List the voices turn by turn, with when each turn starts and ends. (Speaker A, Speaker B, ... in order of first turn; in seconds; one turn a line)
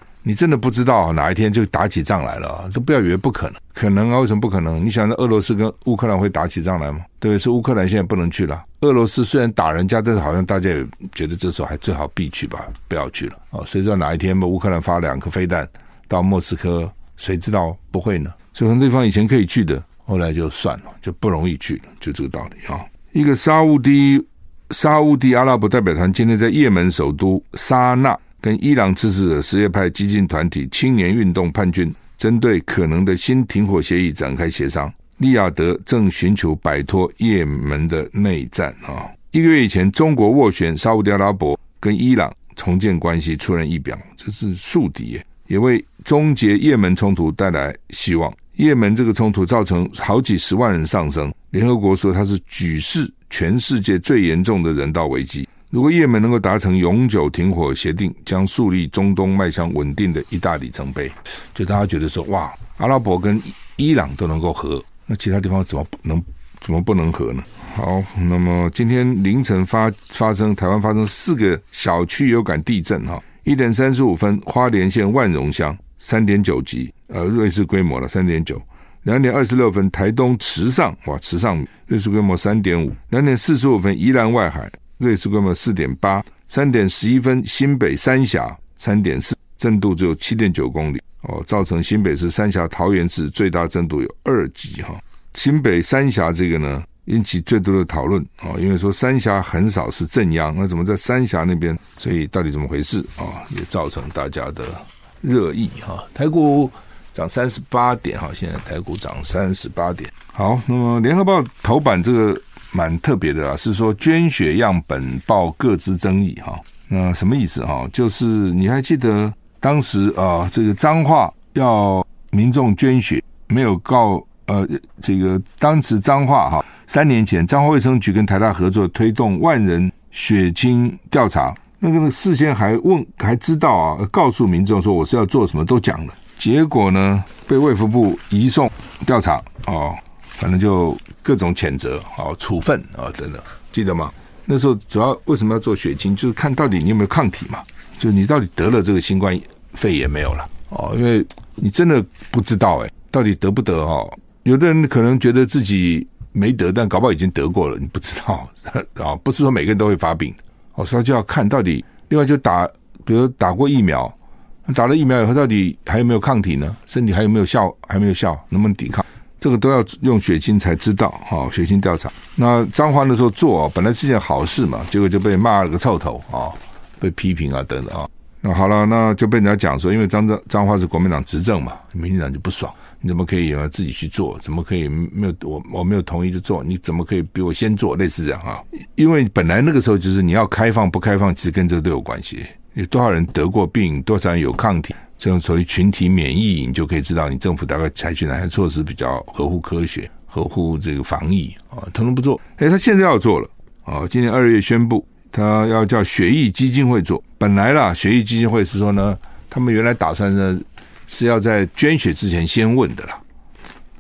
Speaker A: 0.2-164.1
Speaker A: 164.7-213.2